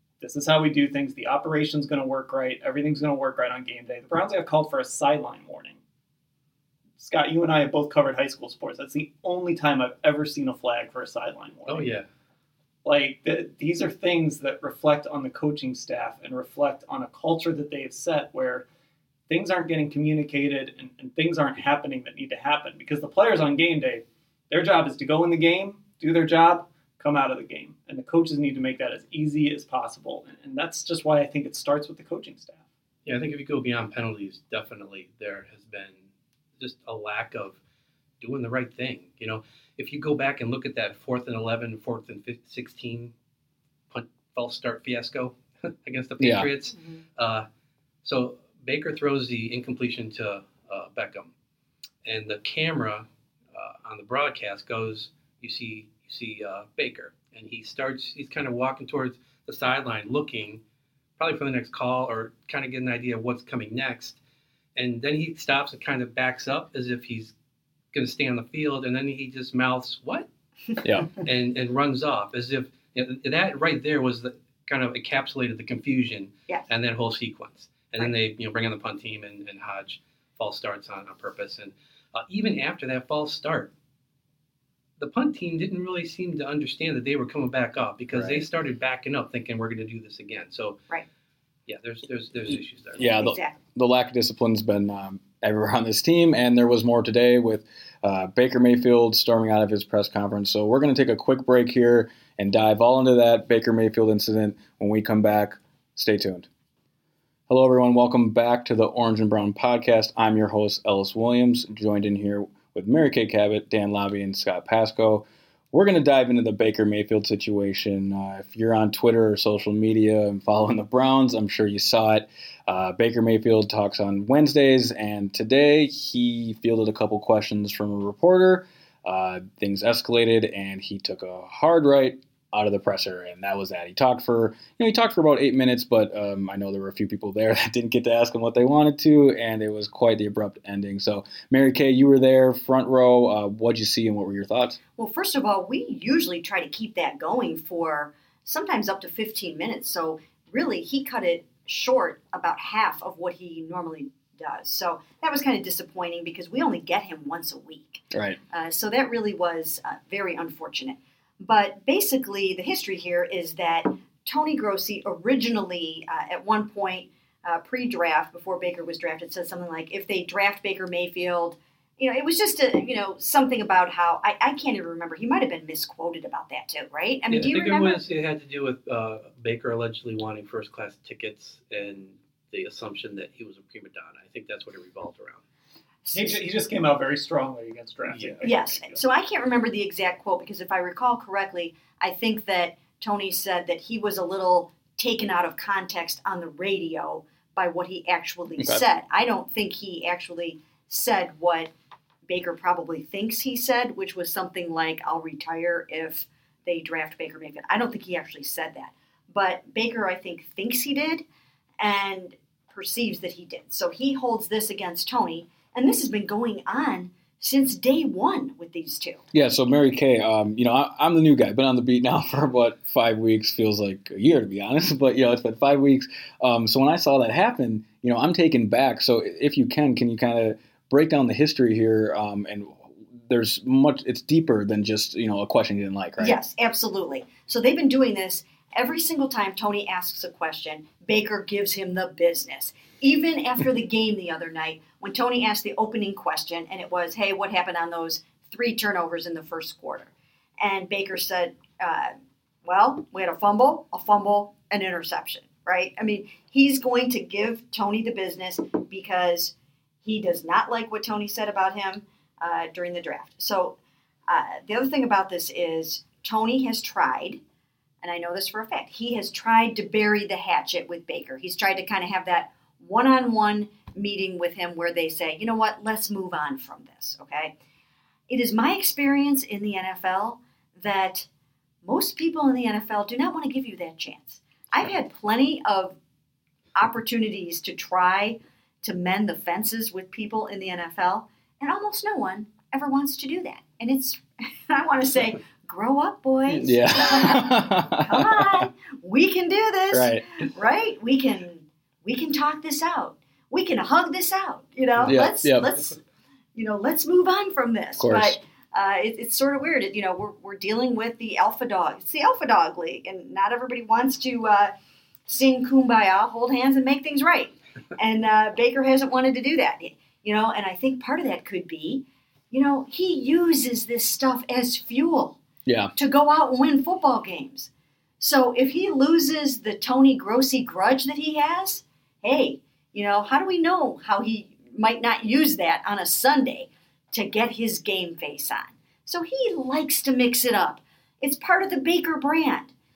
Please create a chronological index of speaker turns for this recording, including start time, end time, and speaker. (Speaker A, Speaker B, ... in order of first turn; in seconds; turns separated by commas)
Speaker A: 0.2-5.8, Speaker A: 7.0-11.9, Speaker B: 11.7-12.1, Speaker A: 12.8-18.6, Speaker A: 19.3-32.6, Speaker B: 33.0-36.1, Speaker B: 36.6-37.6, Speaker B: 38.2-43.1, Speaker B: 43.9-47.5, Speaker C: 46.2-46.5, Speaker D: 46.7-47.0, Speaker B: 48.0-51.3, Speaker B: 52.0-60.6, Speaker B: 61.2-64.2, Speaker B: 64.8-67.3, Speaker B: 67.9-70.3, Speaker C: 70.8-71.1, Speaker B: 71.1-83.7, Speaker B: 85.0-90.8, Speaker C: 88.1-88.5, Speaker B: 91.7-93.1, Speaker C: 93.0-106.5, Speaker D: 93.2-93.6, Speaker C: 107.5-144.8, Speaker D: 145.0-178.0, Speaker C: 158.1-158.4, Speaker B: 177.3-185.4, Speaker D: 186.0-186.4, Speaker A: 186.1-189.0, Speaker B: 188.1-188.4, Speaker D: 188.4-201.7, Speaker C: 198.6-198.8, Speaker D: 202.3-211.2, Speaker D: 211.8-219.2, Speaker C: 219.3-236.4, Speaker D: 236.2-252.1, Speaker D: 252.6-263.8, Speaker D: 264.3-267.4, Speaker D: 268.0-277.5, Speaker D: 278.3-281.3, Speaker D: 281.8-286.0, Speaker D: 286.8-306.0, Speaker C: 296.5-298.7, Speaker C: 299.9-300.5, Speaker C: 305.0-305.8, Speaker D: 306.6-314.7, Speaker C: 308.0-308.4, Speaker D: 315.3-325.4, Speaker C: 325.7-325.9, Speaker D: 326.0-342.7